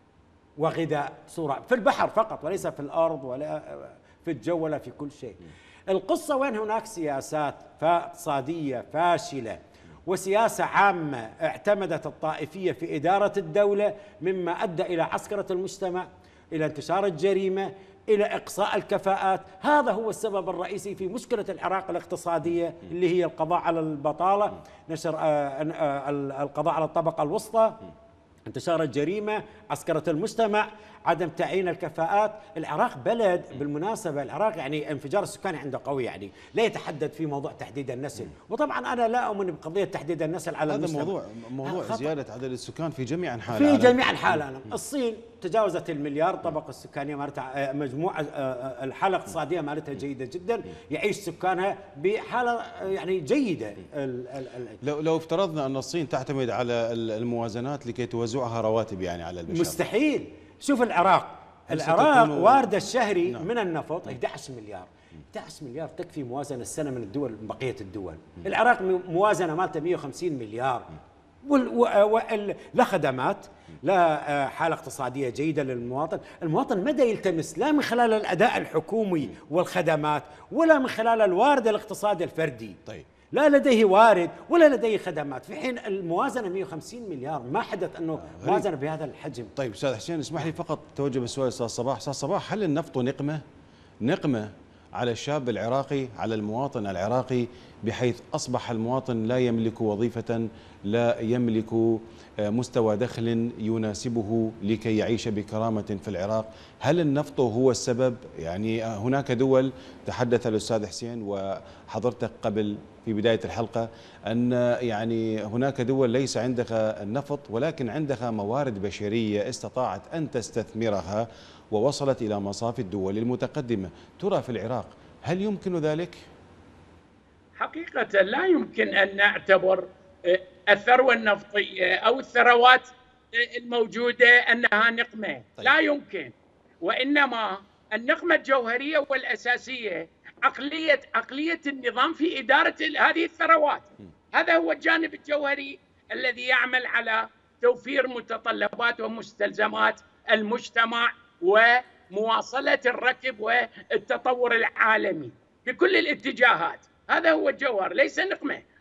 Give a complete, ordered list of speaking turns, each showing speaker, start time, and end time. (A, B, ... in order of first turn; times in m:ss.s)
0:00.6-0:27.8 A
0:28.5-0:42.1 A
0:40.7-0:44.0 B
0:43.5-0:54.8 A
0:54.8-0:59.8 B
0:59.5-1:22.8 A
1:01.7-1:02.7 B
1:23.3-1:29.5 A
1:28.3-1:28.7 B
1:29.6-1:33.4 B
1:34.0-2:06.2 B
2:07.6-2:38.6 C